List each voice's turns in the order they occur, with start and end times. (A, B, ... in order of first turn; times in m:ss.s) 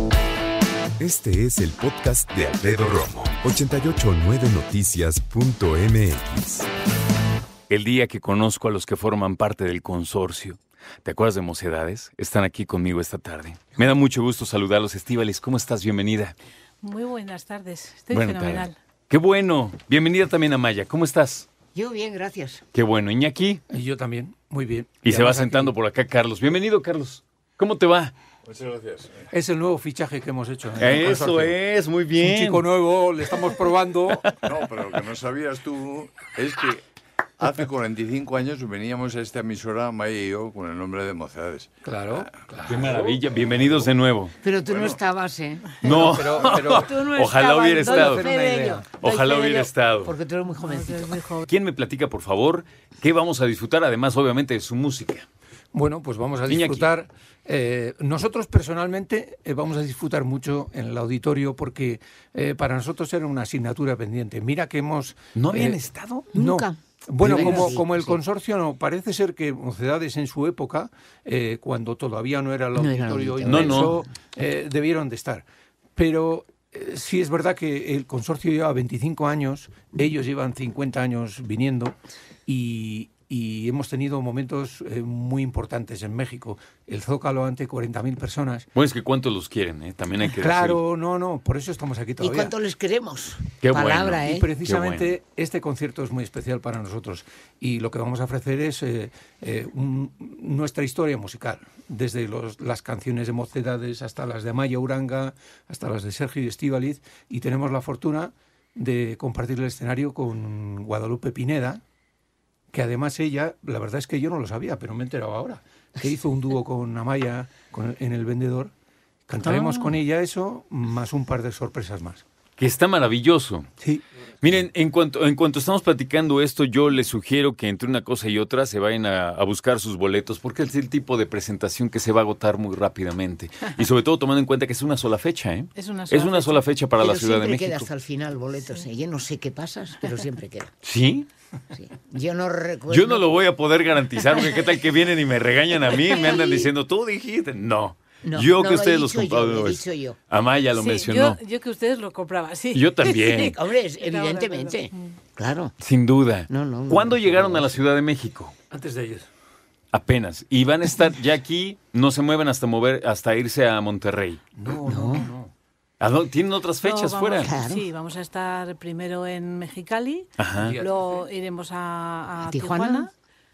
0:01.0-0:06.7 A
0:07.7-0:16.3 B
0:16.8-0:18.8 C
0:18.1-0:21.5 B
0:21.7-0:22.6 D
0:22.7-0:23.6 B
0:23.7-0:25.7 E
0:25.0-0:28.1 B
0:28.4-0:29.2 F
0:29.3-0:31.6 E
0:30.8-0:32.6 B
0:32.2-0:34.3 E
0:34.1-0:36.8 F
0:37.4-0:42.3 F
0:41.8-0:43.0 E
0:42.7-0:44.3 B
0:42.8-0:43.8 F
0:44.4-0:45.8 D
0:44.7-0:45.0 F
0:45.8-0:48.9 E
0:45.8-0:48.3 B
0:46.8-0:49.7 C
0:49.0-0:50.2 B
0:50.0-0:51.2 D
0:50.6-0:51.5 C
0:51.5-0:55.2 B
0:55.7-1:15.4 E
0:56.5-0:56.9 B
1:05.3-1:05.9 B
1:06.3-1:08.2 D
1:12.8-1:13.9 D
1:13.4-1:14.0 B
1:16.0-1:28.7 E
1:28.7-1:30.8 B
1:30.2-1:32.5 E
1:32.2-1:34.5 D
1:33.6-1:35.1 B
1:34.2-1:51.8 E
1:52.7-1:58.7 E
1:59.3-2:02.2 E
1:59.4-1:59.9 B
2:02.6-2:03.7 B
2:04.4-2:17.9 B
2:15.7-2:16.7 C
2:17.0-2:20.7 D
2:20.8-2:21.3 B
2:21.7-2:23.4 D
2:22.9-2:31.4 B
2:26.4-2:26.6 D
2:28.2-2:30.2 D
2:30.7-2:35.2 C
2:32.7-2:33.5 B
2:33.4-2:35.7 D
2:35.8-2:38.5 B
2:36.5-2:37.7 D
2:38.7-2:39.3 E
2:39.9-2:45.3 B
2:44.6-2:45.5 E
2:44.8-2:45.2 D
2:46.0-2:47.6 B
2:46.8-2:53.1 C
2:47.4-2:47.9 D
2:50.4-2:50.8 B
2:50.5-2:51.3 E
2:52.4-2:53.1 D